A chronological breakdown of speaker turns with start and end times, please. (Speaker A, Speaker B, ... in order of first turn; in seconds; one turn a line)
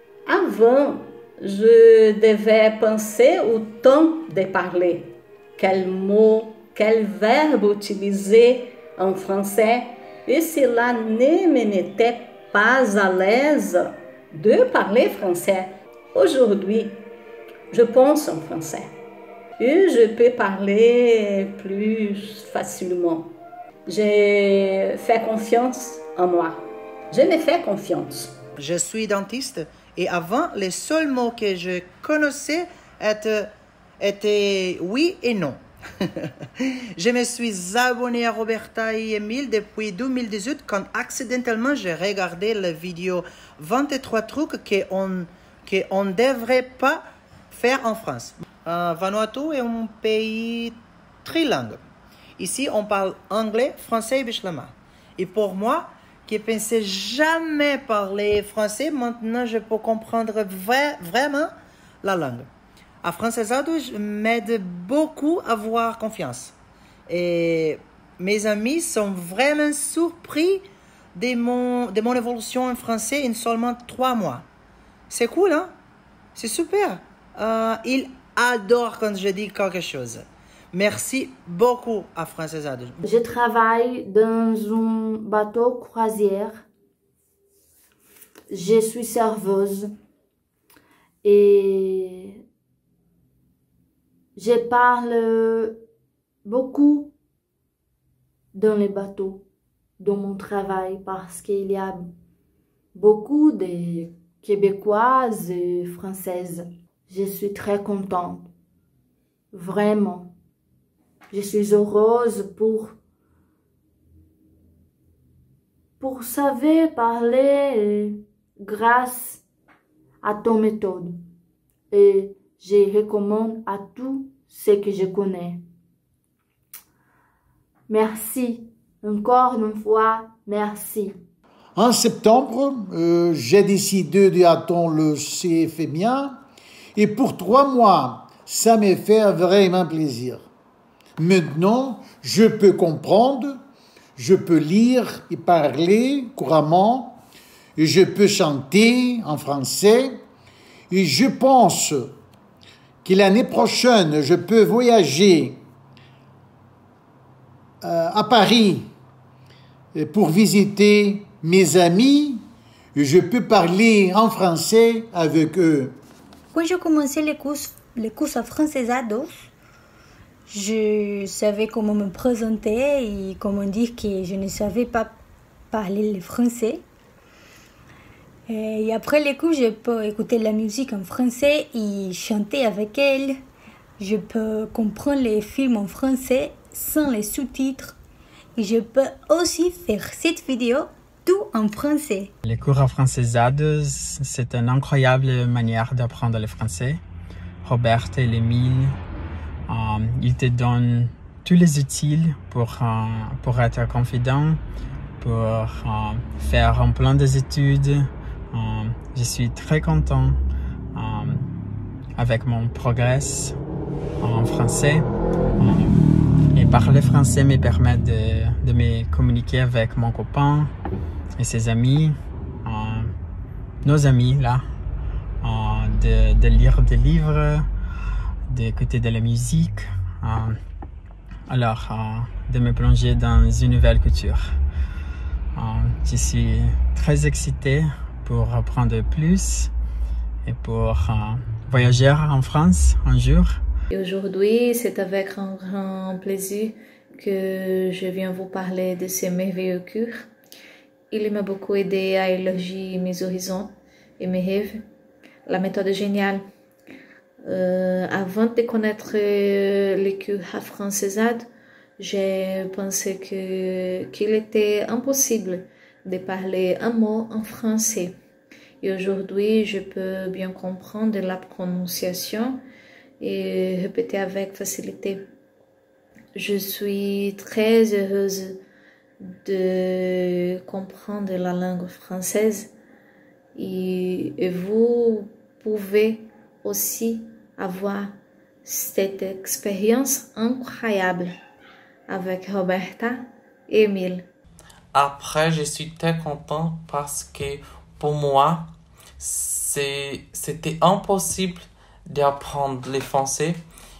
Speaker A: 0.3-17.0
Speaker A: 17.7-18.9
Speaker A: 19.6-23.3
Speaker A: 23.9-26.6
Speaker A: 27.1-28.3
Speaker B: 28.6-33.5
Speaker B: 34.0-35.6
Speaker B: 37.0-51.8
Speaker B: 52.4-62.5
Speaker B: 63.0-66.5
Speaker B: 67.1-74.5
Speaker B: 75.1-75.8
Speaker B: 76.4-83.0
Speaker C: 83.0-86.7
Speaker C: 88.5-89.9
Speaker C: 91.2-92.4
Speaker C: 94.4-95.8
Speaker C: 96.4-97.1
Speaker C: 98.5-99.5
Speaker C: 100.0-102.1
Speaker C: 102.9-108.5
Speaker C: 109.5-110.3
Speaker C: 111.3-113.0
Speaker C: 116.0-119.4
Speaker C: 120.2-121.2
Speaker C: 121.9-125.6
Speaker C: 127.9-131.1
Speaker D: 131.8-136.4
Speaker D: 136.9-140.4
Speaker D: 141.2-143.6
Speaker D: 144.2-147.2
Speaker D: 147.8-150.2
Speaker D: 150.9-152.1
Speaker D: 153.1-155.6
Speaker D: 157.8-158.9
Speaker D: 159.9-162.4
Speaker D: 162.9-166.0
Speaker E: 166.5-169.3
Speaker A: 166.6-169.3
Speaker E: 170.5-175.2
Speaker A: 170.5-173.4
Speaker A: 174.0-175.1
Speaker E: 175.7-176.8
Speaker A: 175.9-176.7
Speaker E: 178.5-183.4
Speaker E: 184.0-188.0
Speaker E: 188.6-192.3
Speaker A: 191.3-192.2
Speaker F: 192.4-197.0
Speaker F: 197.6-198.9
Speaker F: 199.7-204.6
Speaker F: 205.2-210.4
Speaker F: 210.9-211.5
Speaker F: 212.2-213.6
Speaker F: 214.2-215.1
Speaker F: 215.6-216.0
Speaker F: 216.5-220.7
Speaker F: 221.4-223.1
Speaker F: 223.8-224.6
Speaker F: 225.4-227.7
Speaker F: 228.5-230.6
Speaker F: 231.5-234.6
Speaker F: 235.6-239.7
Speaker F: 240.4-243.6
Speaker G: 243.9-250.3
Speaker G: 251.1-254.8
Speaker G: 255.5-256.4
Speaker G: 257.5-261.5
Speaker G: 262.0-268.1
Speaker G: 268.8-272.6
Speaker G: 273.2-275.2
Speaker G: 276.4-278.6
Speaker G: 279.2-282.7
Speaker G: 283.6-288.1
Speaker G: 288.6-291.3
Speaker G: 292.1-294.2
Speaker H: 294.9-303.6